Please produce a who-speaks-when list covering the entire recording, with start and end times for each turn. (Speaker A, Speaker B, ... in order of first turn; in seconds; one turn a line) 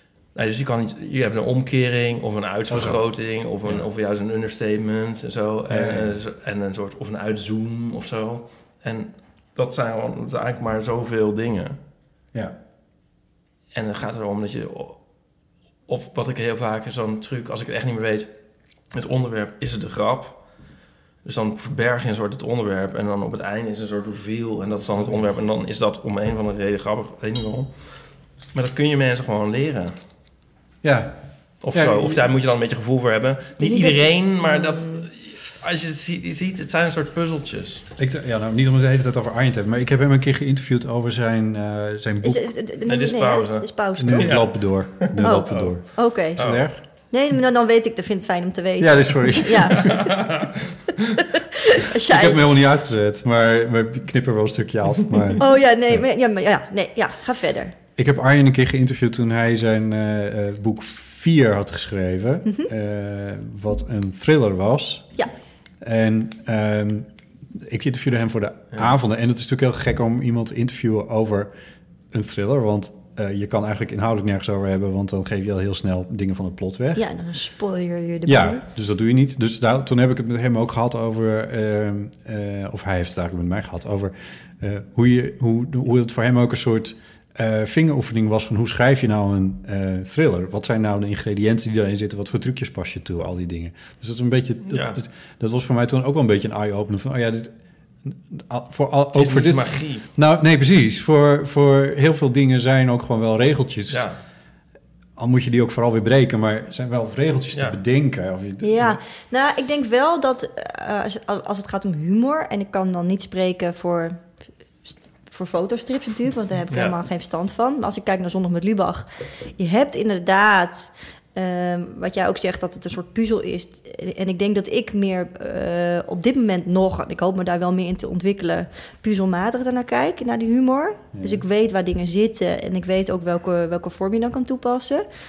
Speaker A: 0.3-11.8
Speaker B: 2.7-3.0
Speaker B: 3.6-3.9
Speaker B: 5.7-6.2
Speaker A: 13.7-15.1
Speaker A: 15.9-18.3
Speaker A: 18.9-20.5
Speaker A: 21.2-28.0
Speaker B: 25.0-25.2
Speaker A: 28.5-30.0
Speaker B: 30.8-32.3
Speaker A: 31.6-37.9
Speaker C: 33.6-35.1
Speaker B: 38.0-42.5
Speaker C: 42.2-44.7
Speaker A: 42.9-46.6
Speaker B: 44.0-46.8
Speaker C: 45.2-50.2
Speaker B: 48.8-50.0
Speaker A: 49.8-50.5
Speaker C: 51.4-52.4
Speaker B: 52.0-56.0
Speaker C: 55.4-57.8
Speaker B: 58.0-65.1
Speaker B: 65.8-71.5
Speaker B: 72.1-77.0
Speaker C: 77.0-78.6
Speaker B: 78.3-104.1
Speaker A: 94.7-95.0
Speaker A: 99.1-100.1
Speaker A: 103.9-104.2
Speaker B: 105.2-109.0
Speaker A: 107.5-107.8
Speaker C: 108.6-135.1
Speaker A: 116.7-117.0
Speaker B: 131.1-131.4